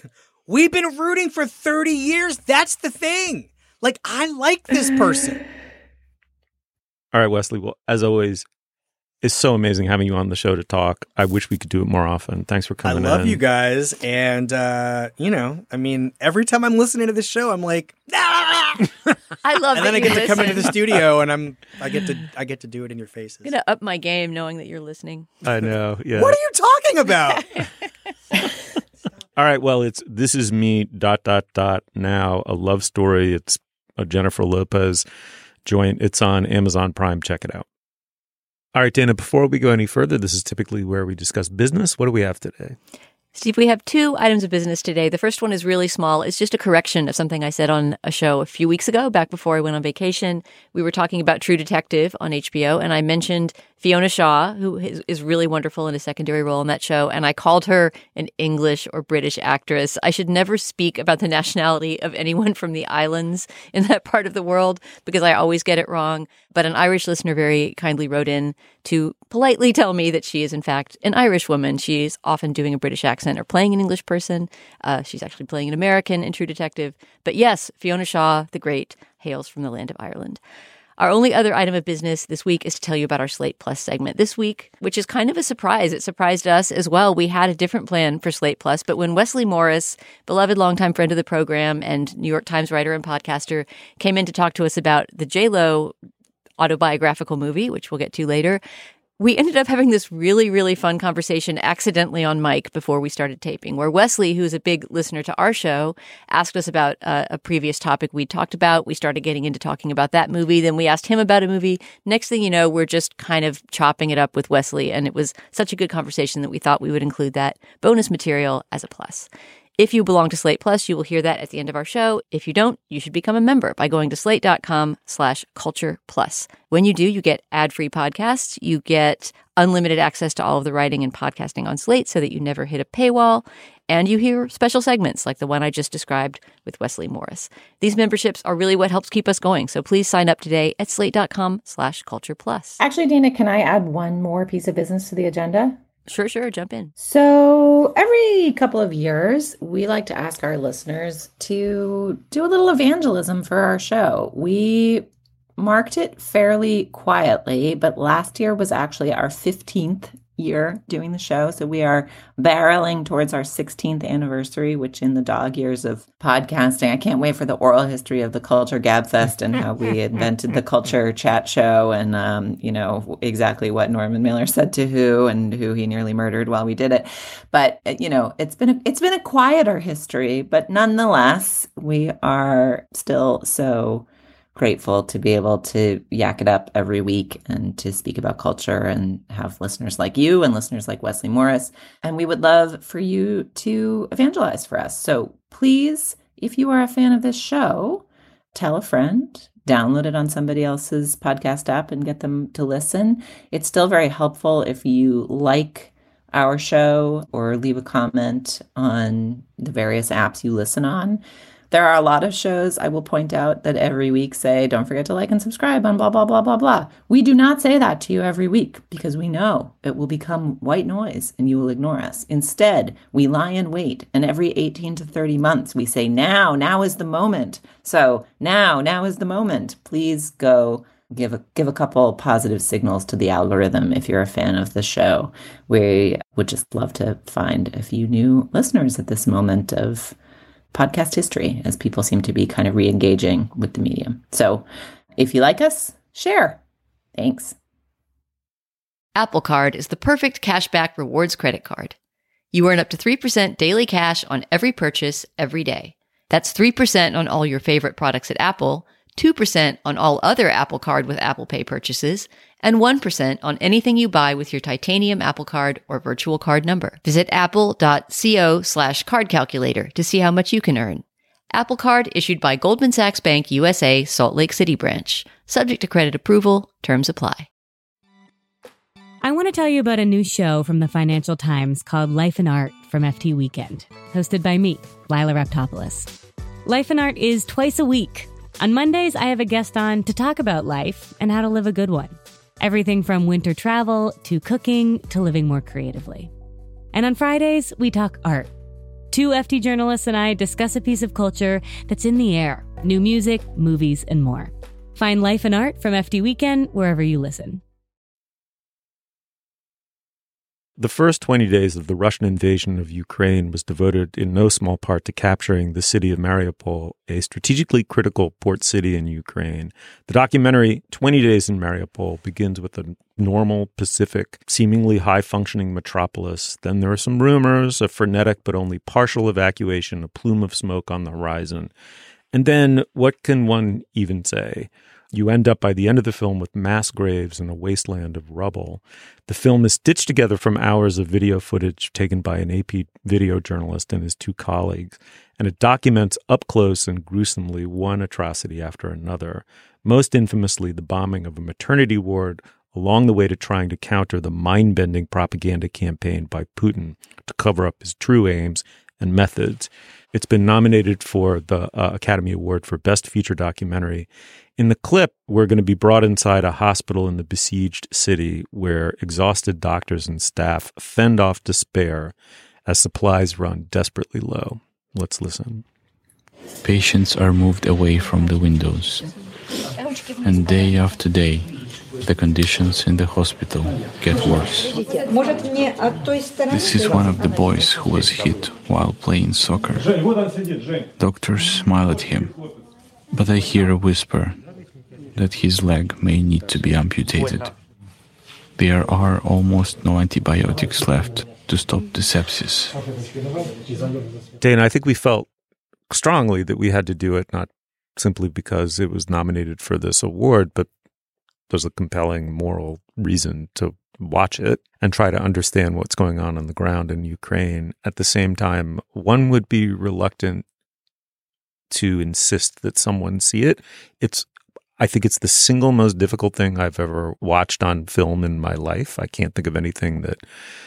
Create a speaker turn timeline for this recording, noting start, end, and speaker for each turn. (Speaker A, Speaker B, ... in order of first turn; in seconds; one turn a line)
Speaker A: 0.5-5.4
Speaker B: 7.1-8.4
Speaker B: 9.2-13.4
Speaker A: 12.8-19.1
Speaker C: 19.4-20.8
Speaker A: 19.7-23.5
Speaker C: 23.4-25.3
Speaker B: 25.4-26.4
Speaker A: 25.6-27.6
Speaker B: 29.4-35.0
Speaker B: 35.6-37.6
Speaker B: 38.7-42.8
Speaker C: 43.3-80.4
Speaker C: 81.0-95.9
Speaker C: 96.6-98.6
Speaker C: 99.2-142.8
Speaker D: 142.8-145.8
Speaker C: 146.1-146.9
Speaker D: 147.0-240.2
Speaker D: 240.7-244.7
Speaker D: 245.2-246.6
Speaker D: 247.2-247.6
Speaker C: 249.2-251.9
Speaker C: 252.5-277.5
Speaker E: 279.2-286.1
Speaker E: 286.6-296.3
Speaker E: 296.9-298.5
Speaker E: 299.1-307.6
Speaker B: 310.8-331.7
Speaker B: 332.3-372.1
Speaker B: 372.6-375.6
Speaker F: 376.6-379.1
Speaker F: 380.2-381.5
Speaker F: 382.0-384.8
Speaker F: 386.4-389.9
Speaker F: 391.0-392.4
Speaker F: 393.1-394.4
Speaker F: 395.1-397.5
Speaker F: 398.6-402.8
Speaker B: 404.4-405.3
Speaker B: 405.9-410.7
Speaker B: 411.5-420.4
Speaker B: 421.7-424.2
Speaker B: 424.8-430.2